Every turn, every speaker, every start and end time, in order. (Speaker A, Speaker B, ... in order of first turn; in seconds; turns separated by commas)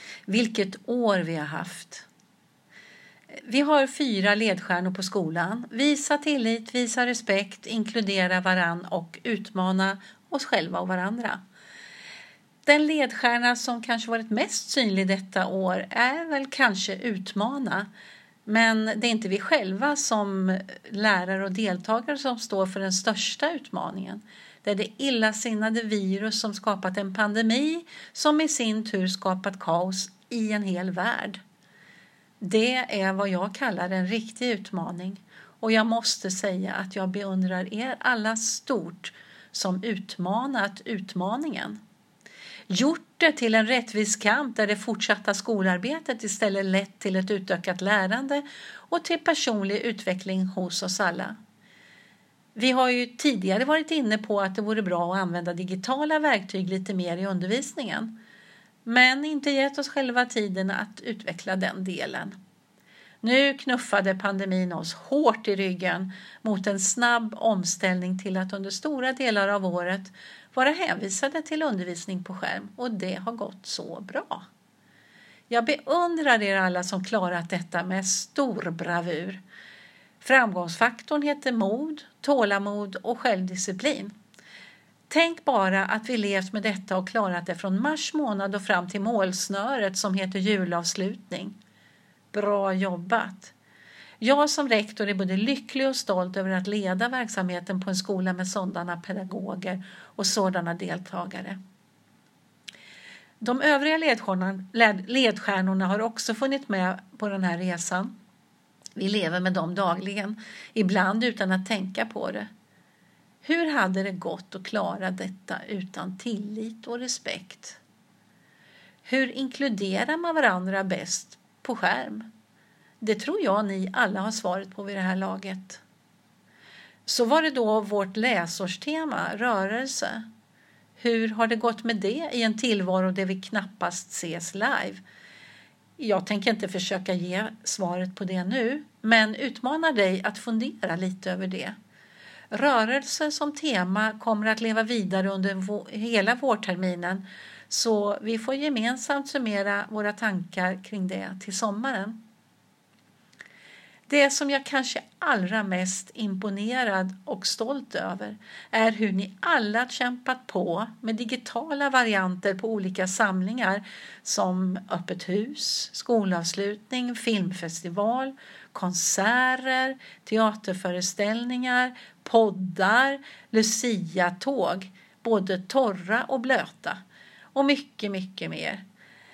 Speaker A: 0.3-2.0, Speaker A: 3.3-11.4, Speaker A: 12.7-17.9, Speaker A: 18.4-31.4, Speaker A: 32.4-41.8, Speaker A: 42.7-51.4, Speaker A: 52.5-58.1, Speaker A: 58.8-62.4, Speaker A: 63.2-74.5, Speaker A: 75.5-79.4, Speaker A: 80.2-84.1, Speaker A: 85.1-91.6, Speaker A: 92.3-93.5, Speaker A: 94.2-101.6, Speaker A: 103.4-108.1, Speaker A: 109.0-112.5, Speaker A: 113.4-117.8, Speaker A: 119.0-122.3, Speaker A: 123.0-125.8, Speaker A: 127.0-130.2, Speaker A: 131.0-135.0, Speaker A: 136.0-141.8, Speaker A: 142.5-152.2, Speaker A: 154.1-177.0, Speaker A: 177.5-178.8